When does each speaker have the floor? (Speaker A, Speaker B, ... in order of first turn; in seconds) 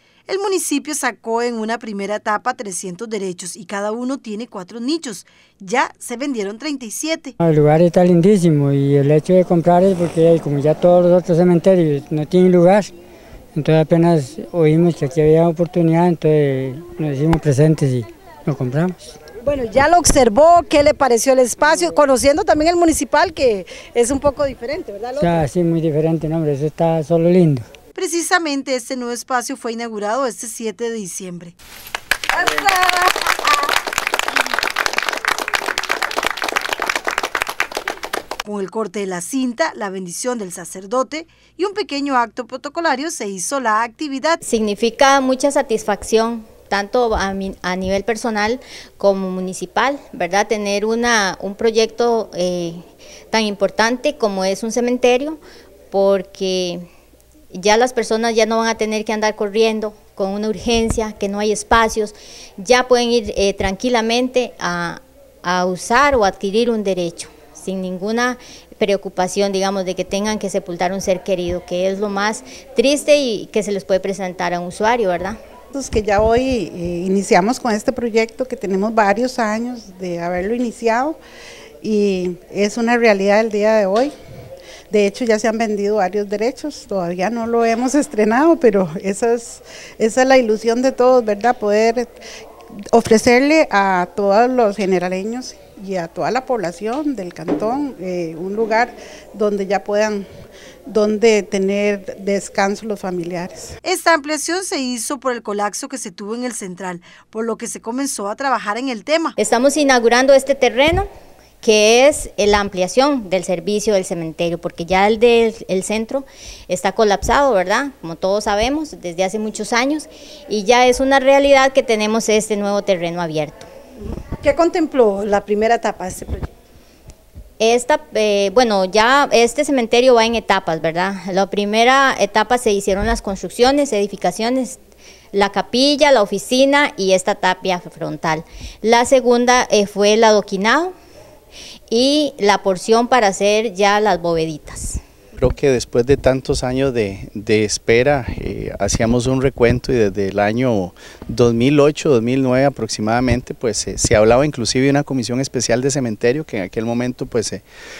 Speaker A: 0.3-7.3, 19.4-25.4, 27.9-31.6, 32.3-33.3, 38.4-44.4, 103.8-109.3, 124.2-126.5
Speaker B: 7.4-12.9, 13.5-19.1, 25.2-27.6
Speaker C: 44.4-52.8, 53.3-55.4, 55.9-56.8, 57.5-75.4, 109.4-111.0, 111.6-123.7, 127.6-134.8, 135.3-140.9, 141.9-145.0
Speaker D: 75.7-81.2, 81.8-84.1, 84.9-92.1, 92.9-100.3, 100.9-103.7
Speaker E: 145.4-157.6